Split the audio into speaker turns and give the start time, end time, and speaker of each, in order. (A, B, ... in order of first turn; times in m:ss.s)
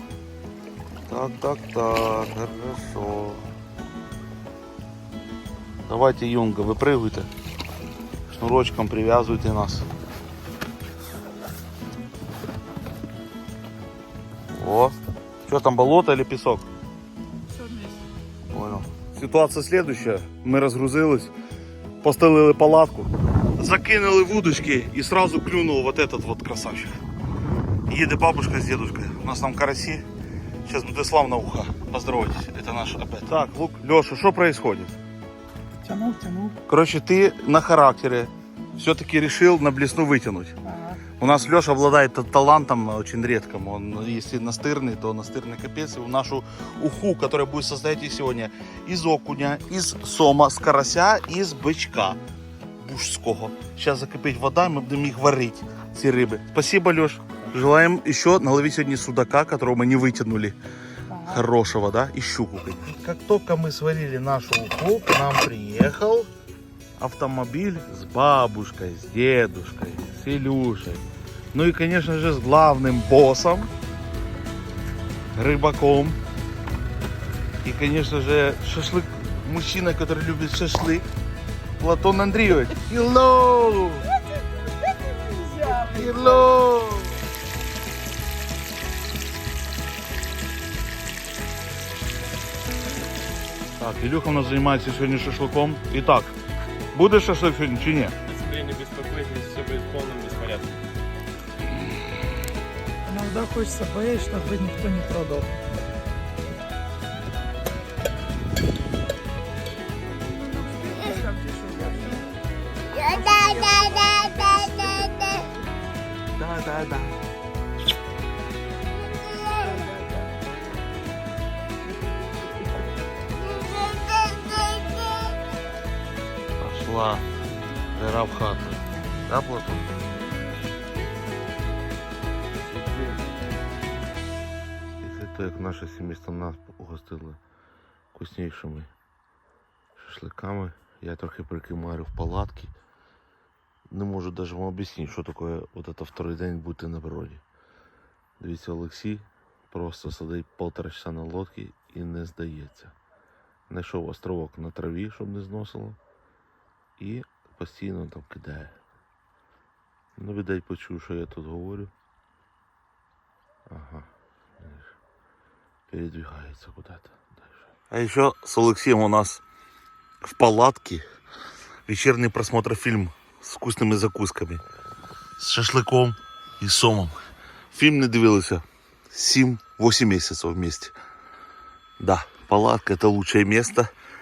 0:01.1-0:03.5 A
0:05.8-0:07.3 A
0:08.3-0:09.9 A
0:14.5-0:16.7 A
0:17.5-0:18.0 B
0:18.5-0:21.3 A
0:22.0-0:27.0 A
0:27.9-0:30.0 A
0:30.6-0:35.0 A
0:35.8-0:36.6 B
0:36.6-0:40.6 A
0:41.2-0:52.2 A
0:52.8-1:00.6 A
1:01.1-1:06.3 A
1:07.0-1:13.7 A
1:15.3-1:16.2 A
1:17.6-1:21.1 A
1:21.8-1:24.1 A
1:24.4-1:26.5 B
1:25.8-1:27.2 A
1:33.8-1:36.3 A
1:36.9-1:38.1 A
1:38.3-1:40.8 C
1:43.0-1:45.5 B
1:50.3-1:55.6 B
1:56.4-1:57.2 B
1:59.4-2:00.3 B
2:03.5-2:05.1 B
2:06.6-2:07.3 A
2:07.9-2:09.9 A
2:15.0-2:17.4 A
2:18.1-2:18.9 A
2:20.0-2:22.7 A
2:23.9-2:27.4 A
2:28.4-2:32.9 A
2:33.7-2:36.0 A
2:37.0-2:38.8 A
2:40.2-2:41.9 A
2:43.7-2:44.1 A
2:44.6-2:44.9 A
2:45.9-2:49.4 A
2:50.2-2:51.0 A
2:51.9-2:54.6 A
2:55.4-2:57.2 A
2:57.7-3:00.9 A
3:02.0-3:03.9 A